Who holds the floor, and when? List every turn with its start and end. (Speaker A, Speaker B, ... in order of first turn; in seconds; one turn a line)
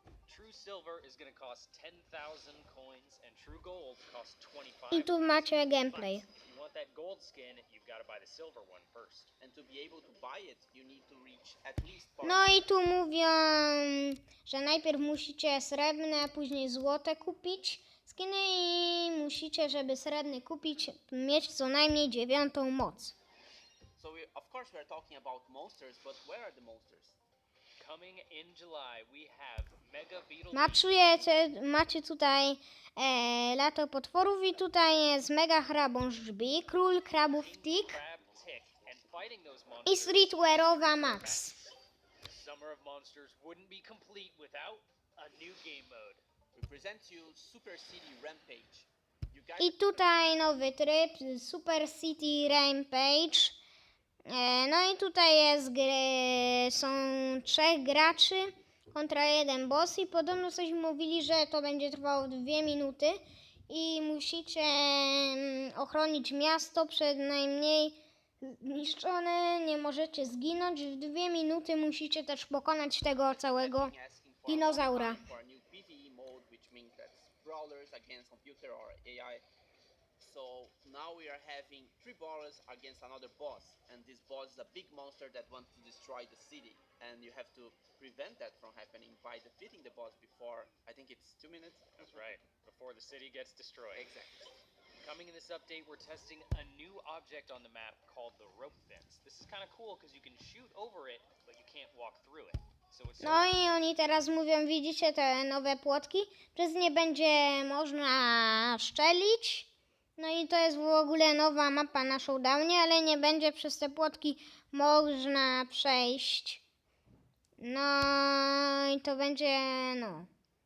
Speaker A: 0.3-9.3
Speaker B: 4.9-6.2
Speaker C: 9.4-12.6
Speaker B: 12.2-23.1
Speaker C: 23.9-27.2
Speaker A: 27.8-30.9
Speaker B: 30.5-38.0
Speaker A: 37.1-41.7
Speaker B: 39.9-41.6
Speaker A: 42.2-46.2
Speaker C: 46.5-49.8
Speaker B: 49.6-53.6
Speaker B: 54.3-73.9
Speaker C: 73.2-79.4
Speaker B: 74.5-75.2
Speaker C: 80.2-92.3
Speaker A: 92.0-94.0
Speaker C: 93.9-94.5
Speaker A: 95.0-103.5
Speaker B: 103.2-116.6
Speaker B: 117.6-120.3